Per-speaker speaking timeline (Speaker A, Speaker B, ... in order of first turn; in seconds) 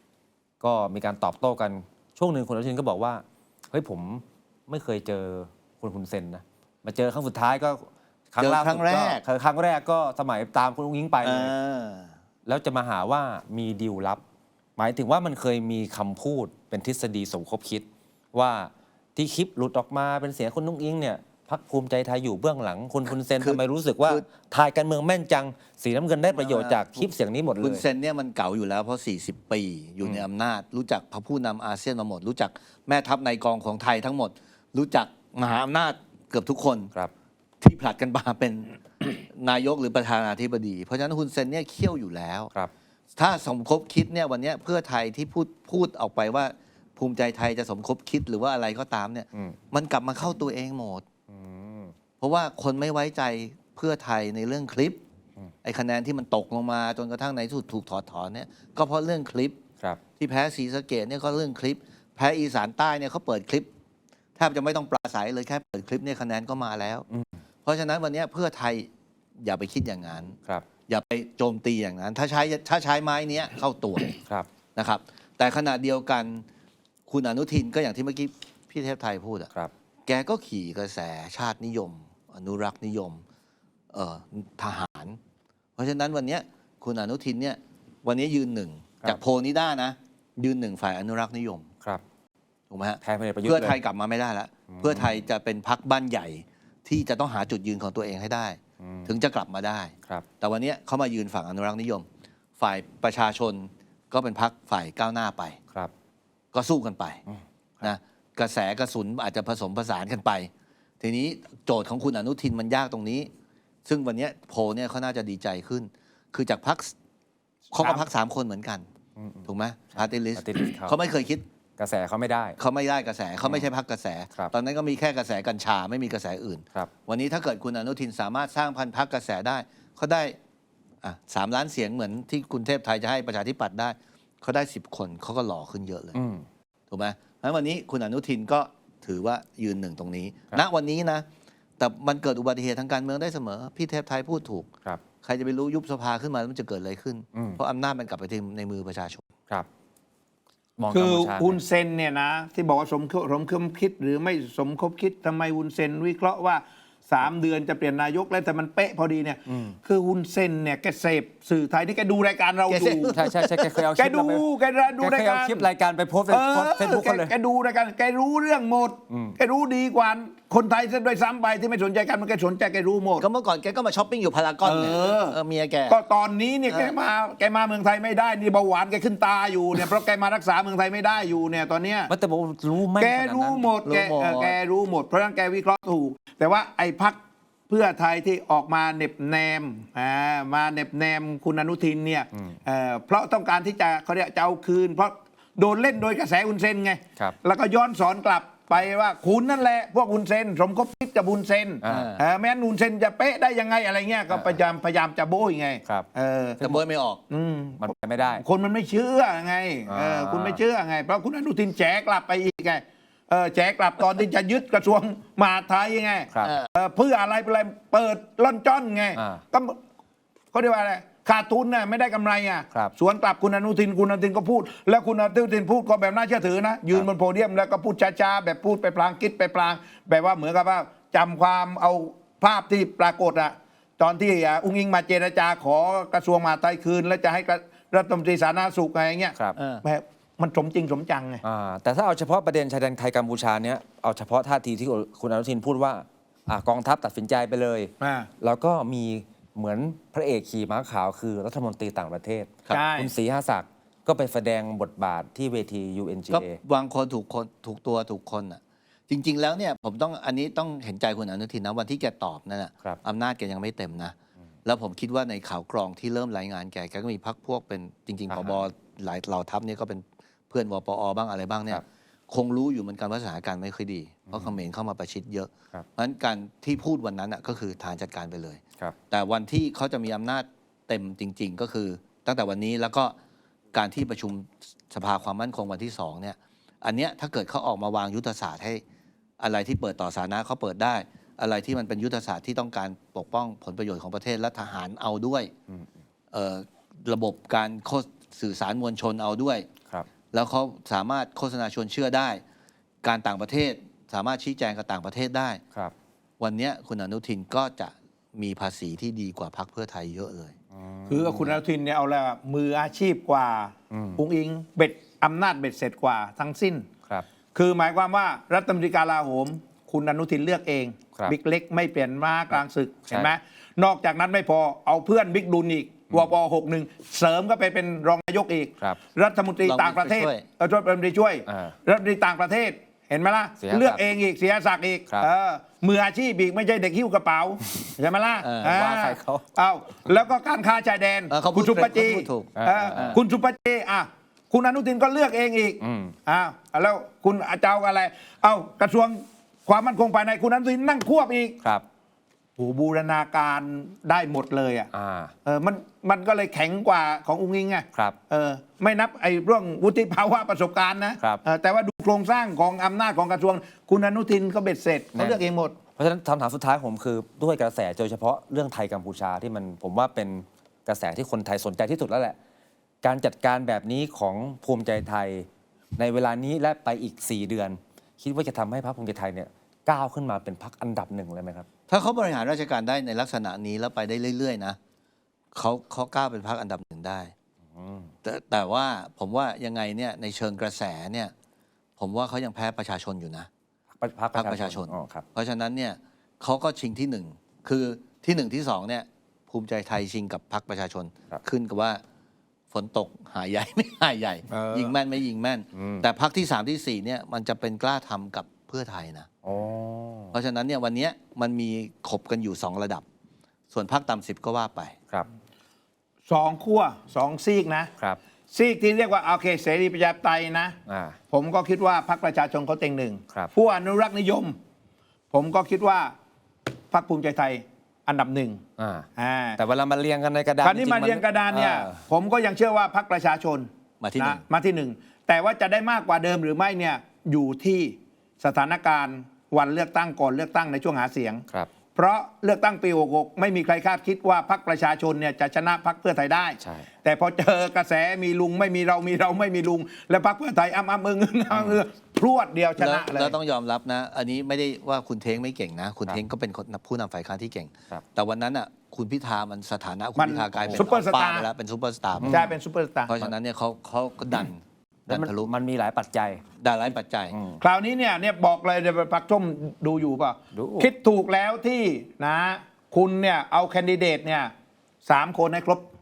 Speaker A: 0.6-11.5, 12.5-14.2, 14.8-27.8, 51.3-51.9, 93.0-93.8, 94.7-95.2, 98.8-99.1, 119.2-121.0, 121.8-122.6, 136.1-136.4, 147.3-147.6, 150.8-151.6, 159.5-159.8, 163.1-164.4, 165.0-167.3, 169.1-169.3, 182.1-183.7, 201.8-202.2, 204.3-204.6, 207.8-208.4, 209.9-210.6, 219.2-219.4, 241.4-256.6, 268.3-268.6, 274.3-274.5, 310.7-311.6, 313.9-314.2, 331.5-331.8, 333.6-334.0, 338.6-339.4, 342.6-343.1, 345.8-346.1, 354.9-355.3, 366.0-372.4, 373.0-381.7, 387.8-388.1, 394.0-395.2, 405.7-406.1, 409.4-410.4, 420.9-421.2, 428.8-431.2, 446.6-446.9, 451.5-451.8, 460.6-460.9, 462.2-462.5, 465.1-466.4, 467.3-467.6, 470.5-470.9
Speaker B: 8.4-9.2, 11.2-12.1, 23.4-24.3, 26.3-27.1, 27.6-36.9, 37.6-42.5, 43.1-51.0, 52.2-55.0, 55.6-59.6, 60.2-63.7, 64.4-67.1, 67.7-74.2, 74.8-76.5, 77.1-79.5, 80.1-83.2, 83.9-85.2, 85.8-91.7, 92.7-102.0, 102.6-105.6, 106.5-107.2, 107.8-110.5, 111.0-113.3, 113.9-116.9, 117.7-118.9, 119.5-121.4, 122.6-130.4, 131.0-136.2, 136.9-141.2, 141.8-144.7, 145.2-149.3, 162.7-163.7, 173.2-176.0, 176.7-176.9, 183.8-184.6, 201.8-202.2, 206.6-207.2, 239.6-239.8, 256.3-283.1, 283.7-288.8, 289.4-295.5, 296.3-299.7, 300.3-302.4, 303.0-305.6, 306.4-310.5, 329.6-330.4, 338.4-338.8, 341.3-343.2, 381.9-384.8, 385.5-387.3, 388.2-391.3, 392.0-393.5, 394.4-402.0, 402.7-409.3, 410.3-413.0, 413.7-415.0, 431.5-431.9, 434.0-434.4, 452.8-462.5, 463.1-465.5, 466.6-467.4
Speaker C: 150.9-163.2, 164.0-165.7, 166.3-173.3, 174.6-175.4, 175.9-182.1, 183.0-219.8, 220.5-241.4, 248.0-248.3, 252.7-253.1, 311.1-316.9, 317.6-351.6, 352.6-354.9, 355.4-365.8, 404.5-405.0, 416.3-417.9, 418.5-420.8, 421.3-424.6, 425.3-426.1, 426.9-428.6, 429.2-429.6, 430.6-441.4, 441.9-453.4, 460.2-461.5, 462.3-463.3, 467.6-474.5, 475.1-475.9